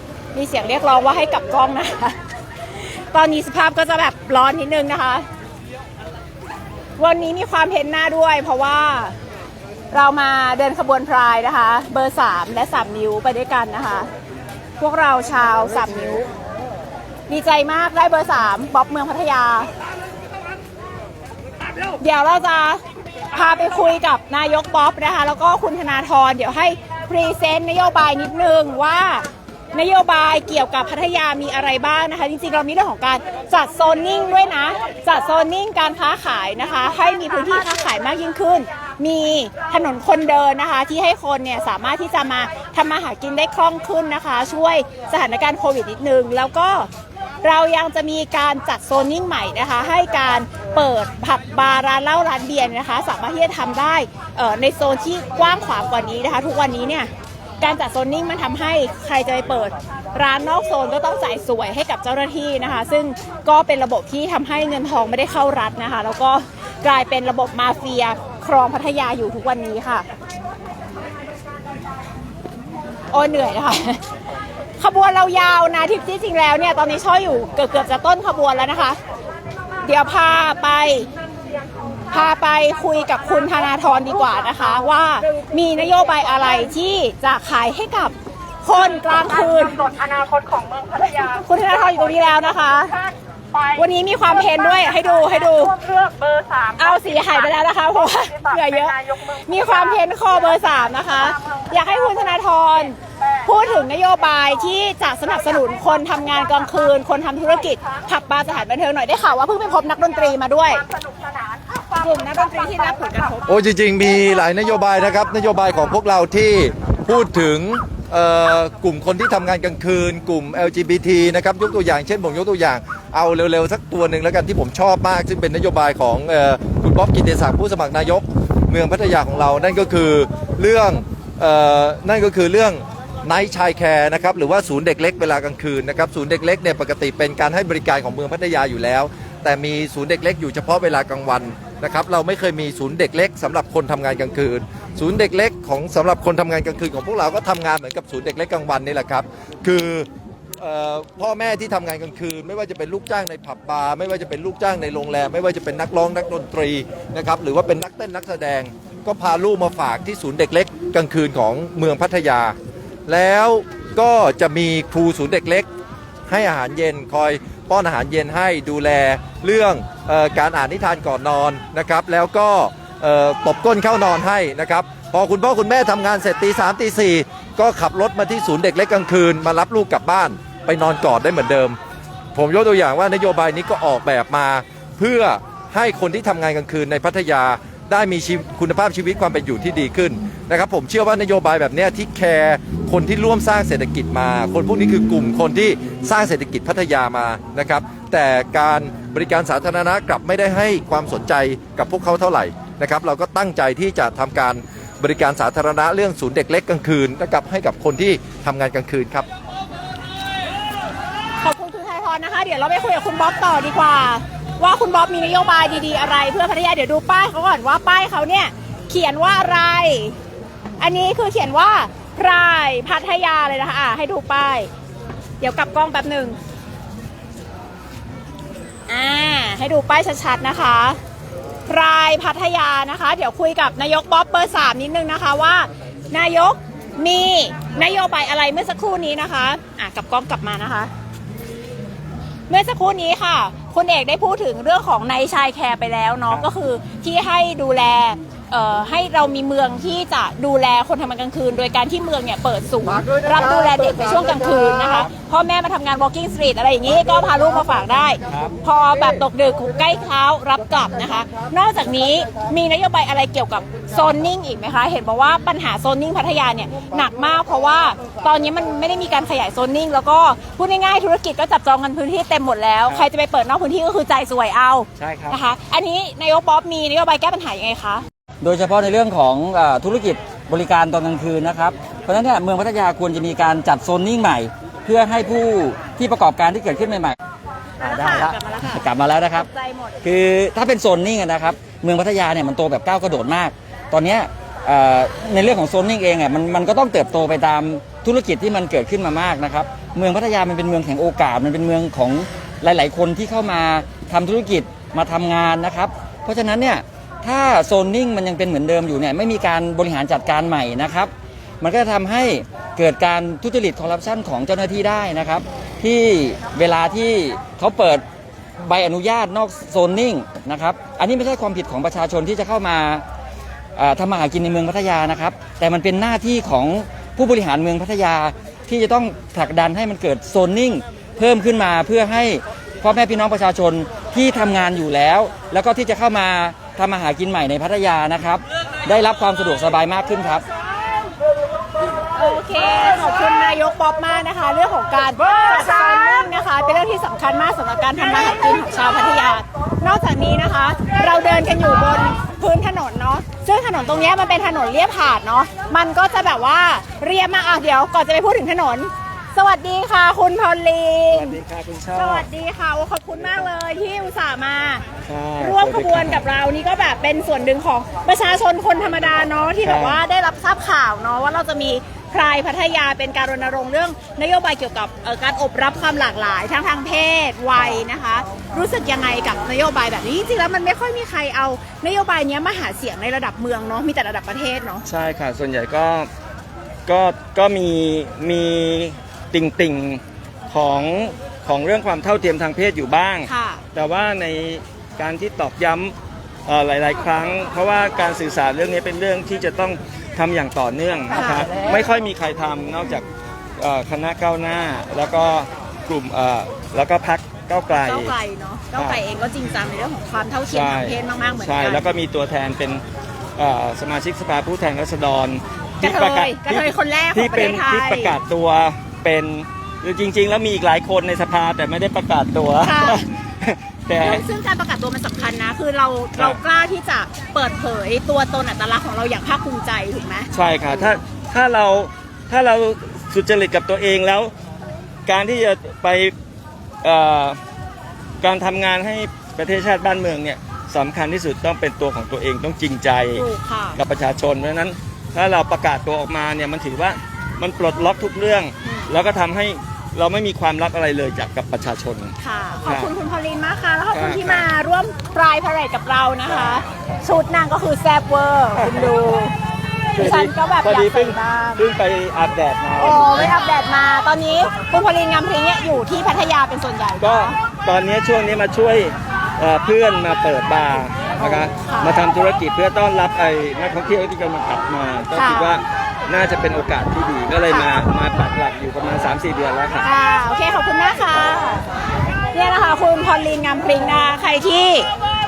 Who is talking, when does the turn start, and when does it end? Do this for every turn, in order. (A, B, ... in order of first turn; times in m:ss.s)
0:00.3-0:02.2 A
0:03.1-0:05.3 A
0:07.0-0:09.2 A
0:09.9-0:14.1 A
0:14.8-0:16.3 A
0:17.3-0:19.7 A
0:22.0-0:22.8 A
0:23.3-0:46.9 A
0:47.4-0:57.1 A
0:57.6-1:10.1 A
1:13.1-1:14.0 A
1:14.8-1:19.0 A
1:19.8-1:21.1 A
1:22.1-1:29.8 A
1:28.7-1:40.0 B
1:31.3-1:32.9 A
1:33.8-1:35.7 A
1:36.8-1:50.8 A
1:40.9-1:41.9 B
1:50.9-1:53.4 B
1:52.0-1:53.5 A
1:53.5-2:30.1 C
2:30.6-2:42.6 C
2:43.1-2:45.7 C
2:46.3-3:01.8 C
3:02.3-3:29.3 C
3:31.4-3:40.2 A
3:40.8-3:44.7 A
3:45.4-3:46.4 A
3:48.9-3:51.0 A
3:51.7-4:00.9 A
4:02.5-4:38.0 A
4:35.0-4:35.3 D
4:38.4-4:47.2 E
4:47.8-4:50.0 A
4:47.8-4:49.5 E
4:50.0-5:18.0 E
5:18.6-5:23.0 E
5:23.8-5:40.4 E
5:42.1-6:01.4 A
6:01.1-6:02.2 D
6:01.9-6:04.9 A
6:05.1-6:06.2 D
6:05.4-6:24.9 A
6:09.6-6:10.0 D
6:24.9-6:26.1 D
6:26.9-6:35.9 D
6:33.2-6:33.6 A
6:36.4-6:43.1 D
6:41.1-6:41.8 A
6:43.6-6:48.1 D
6:47.8-6:51.8 A
6:50.5-6:52.8 D
6:53.4-7:04.2 D
6:55.8-6:58.2 A
7:02.6-7:03.0 A
7:04.0-7:10.9 A
7:06.1-7:06.4 D
7:10.3-7:14.3 D
7:15.1-7:16.1 D
7:16.8-7:17.4 D
7:18.2-7:32.9 D
7:23.1-7:23.8 A
7:32.2-7:39.3 A
7:33.9-7:34.4 D
7:38.6-7:39.0 D
7:40.0-7:43.3 D
7:40.0-7:41.6 A
7:42.8-7:47.4 A
7:47.0-7:59.9 D
7:51.2-7:52.0 A
7:55.1-7:55.6 A
7:59.8-8:01.7 A
8:02.3-8:04.9 A